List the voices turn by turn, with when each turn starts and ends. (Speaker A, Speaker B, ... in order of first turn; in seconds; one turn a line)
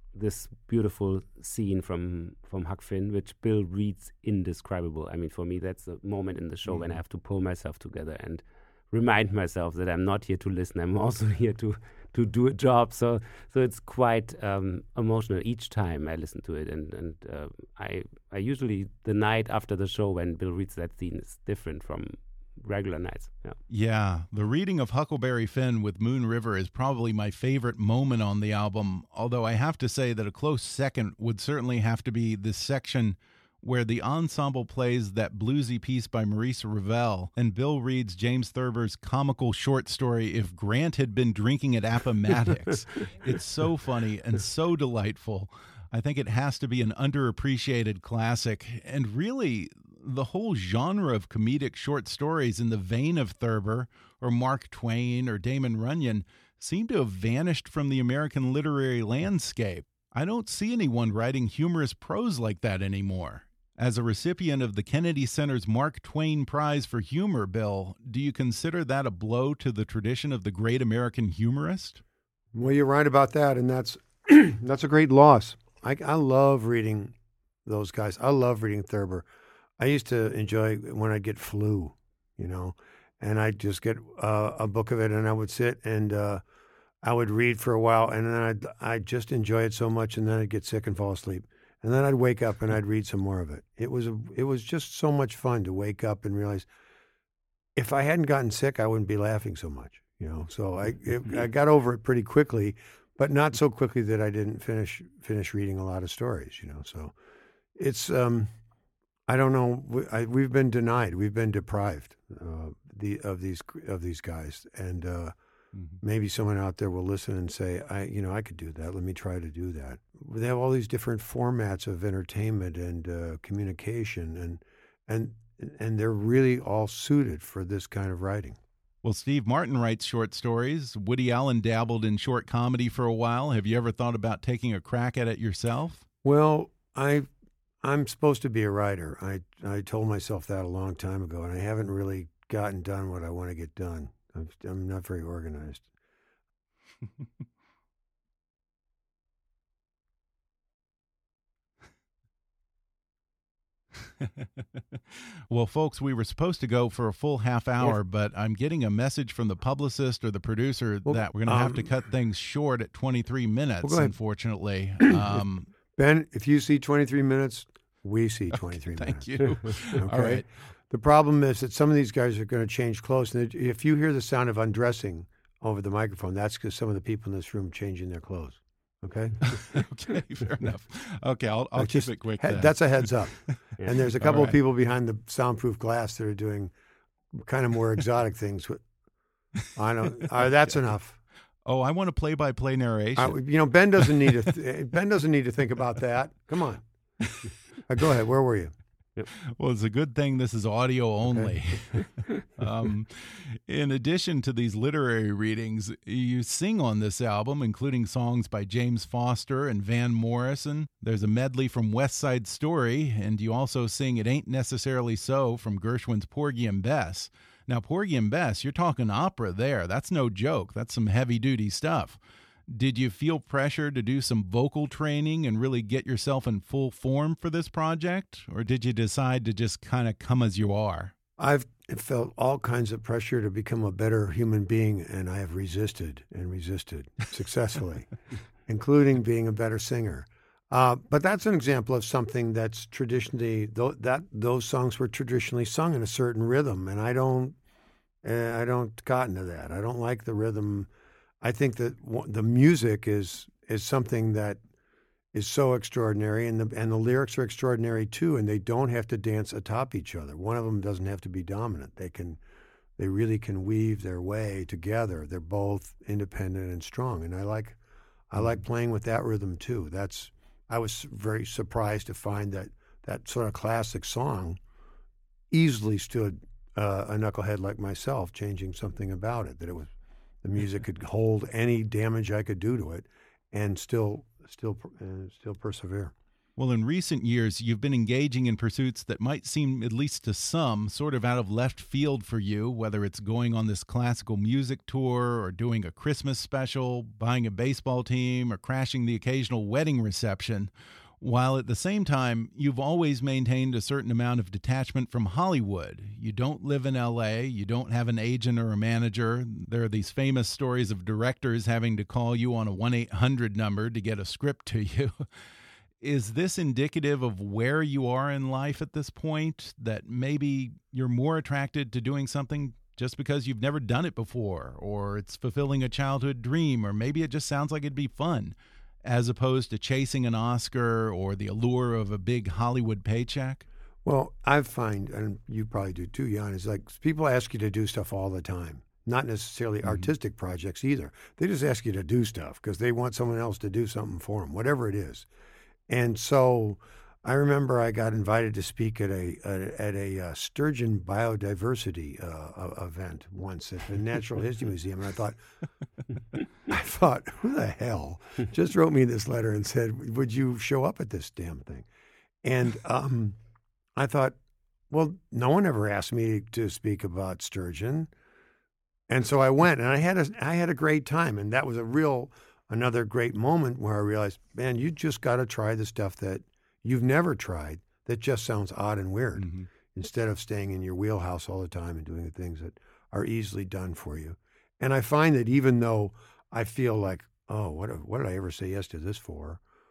Speaker A: 0.1-23.6
Speaker B: 6.7-7.0
Speaker B: 23.7-72.0
Speaker C: 72.5-77.2
Speaker C: 77.7-79.3
Speaker C: 79.8-86.4
Speaker C: 87.0-96.7
Speaker C: 97.8-107.1
Speaker C: 107.8-108.5
Speaker C: 109.3-115.3
Speaker C: 116.0-128.6
Speaker B: 129.0-136.1
Speaker C: 136.2-137.3
Speaker C: 137.8-145.9
Speaker B: 155.5-165.7
Speaker C: 161.1-161.9
Speaker C: 163.8-164.1
Speaker C: 166.0-179.6
Speaker B: 168.5-170.4
Speaker B: 179.4-184.6
Speaker C: 181.8-186.7
Speaker C: 187.3-188.8
Speaker C: 189.8-191.2
Speaker B: 191.7-193.4
Speaker C: 193.2-196.8
Speaker B: 194.1-194.3
Speaker B: 197.2-197.5
Speaker C: 197.9-198.7
Speaker B: 199.6-222.2
Speaker B: 222.7-231.1
Speaker C: 231.4-238.1
Speaker C: 238.7-247.6
Speaker C: 248.2-250.9
Speaker C: 251.4-254.6
Speaker C: 255.3-262.4
Speaker C: 263.0-267.8
Speaker C: 268.3-274.6
Speaker C: 275.5-279.9
Speaker C: 280.4-286.1
Speaker B: 286.6-315.2
Speaker B: 316.0-333.7
Speaker C: 334.1-345.3
Speaker B: 339.8-340.1
Speaker C: 345.9-355.4
Speaker C: 356.7-361.9
Speaker C: 362.4-363.4
Speaker C: 364.0-364.4
Speaker C: 364.9-368.1
Speaker C: 369.1-389.6
Speaker B: 379.4-379.7